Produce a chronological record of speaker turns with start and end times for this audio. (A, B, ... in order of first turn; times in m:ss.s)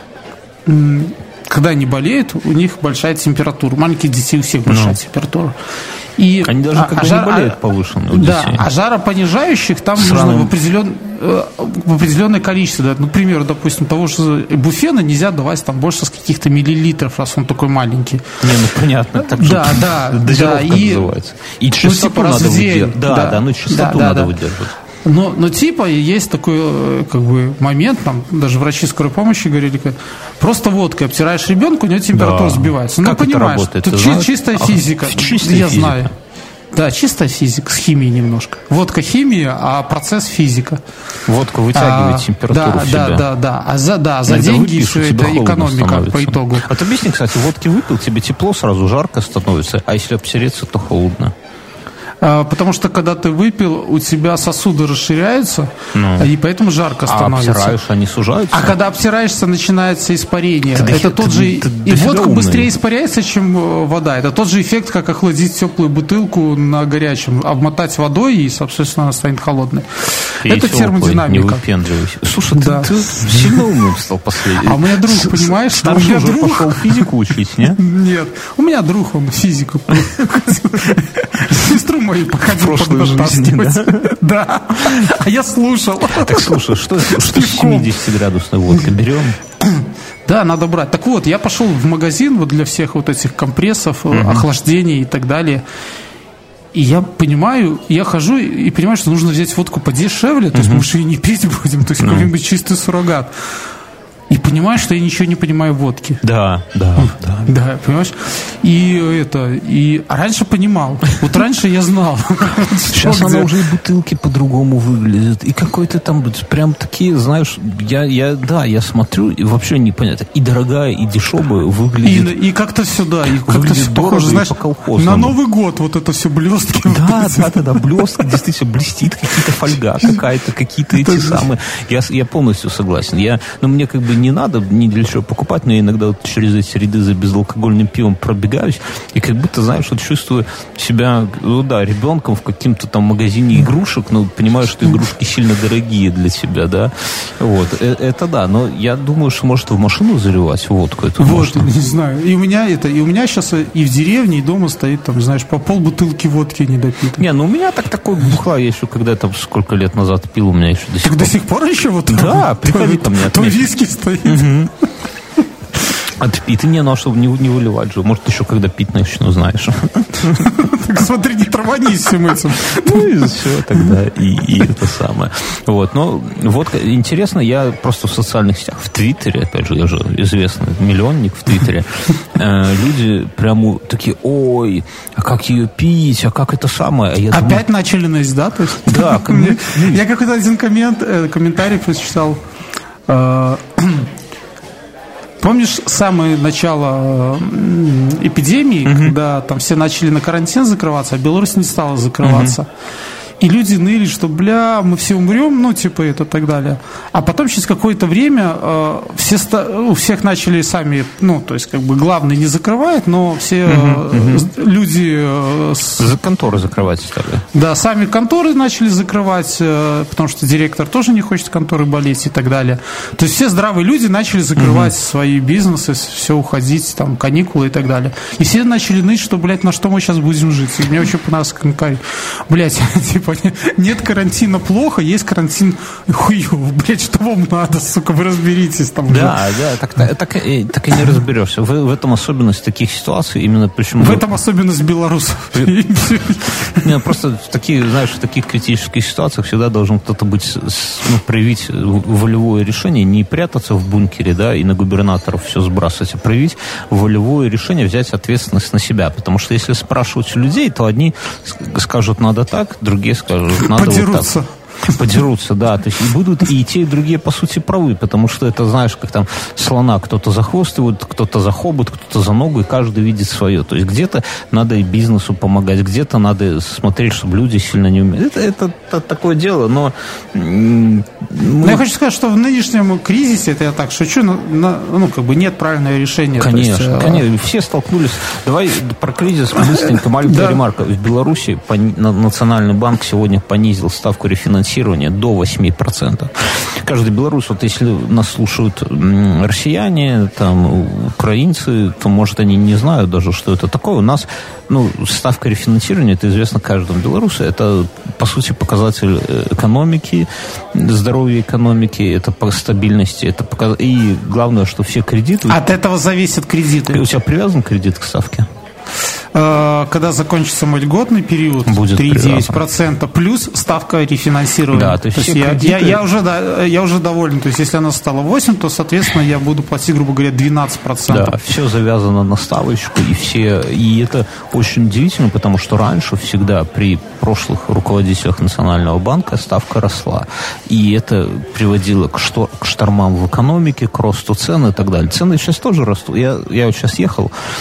0:00.6-0:05.5 A
0:04.7-0:05.0 B
0:06.2-0:07.6 A
0:06.4-0:08.6 B
0:08.1-0:18.2 A
0:10.0-0:10.5 B
0:18.4-0:24.7 B
0:19.4-0:21.1 A
0:21.8-0:24.3 A
0:25.0-0:36.1 A
0:32.1-0:36.1 B
0:36.7-0:40.8 A
0:41.3-0:43.2 B
0:41.7-0:46.7 A
0:44.2-0:51.3 B
0:52.2-0:57.8 A
0:55.9-0:56.3 B
0:57.0-0:58.8 B
0:58.5-1:11.6 A
1:00.7-1:02.7 B
1:10.4-1:17.8 B
1:12.5-1:13.6 A
1:14.6-1:17.1 A
1:17.8-1:28.0 A
1:20.0-1:20.3 B
1:22.4-1:24.1 B
1:24.8-1:25.1 B
1:26.1-1:29.4 B
1:29.6-1:35.6 A
1:34.1-1:34.4 B
1:36.7-1:43.3 A
1:40.5-1:40.9 B
1:42.0-1:42.3 B
1:44.3-1:46.2 A
1:46.2-1:47.5 B
1:47.0-1:53.5 A
1:52.9-2:02.3 B
2:02.0-2:07.8 A
2:03.2-2:05.3 B
2:06.8-2:31.6 B
2:11.0-2:11.4 A
2:31.2-2:37.2 A
2:37.2-2:41.3 B
2:41.0-2:44.5 A
2:42.1-2:43.7 B
2:44.2-2:44.7 B
2:46.2-2:50.5 B
2:50.4-2:53.3 A
2:52.7-3:07.6 B
3:07.3-3:12.4 A
3:08.8-3:10.0 B
3:13.1-3:14.1 A
3:15.4-3:22.7 A
3:18.8-3:19.1 B
3:22.2-3:22.6 B
3:23.4-3:36.1 A
3:33.6-3:34.5 B
3:36.0-3:37.4 B
3:37.5-3:59.4 A
3:44.6-3:44.9 B
3:59.1-4:04.2 B
4:04.0-4:06.9 A
4:06.8-4:24.3 B
4:23.5-4:25.0 A
4:24.9-4:41.8 B
4:41.6-4:47.2 A
4:46.4-5:15.6 B
4:50.2-4:50.6 A
5:15.5-5:17.0 A
5:16.9-5:18.5 B
5:19.3-5:31.3 A
5:21.6-5:22.6 B
5:24.7-5:26.0 B
5:31.1-5:47.3 B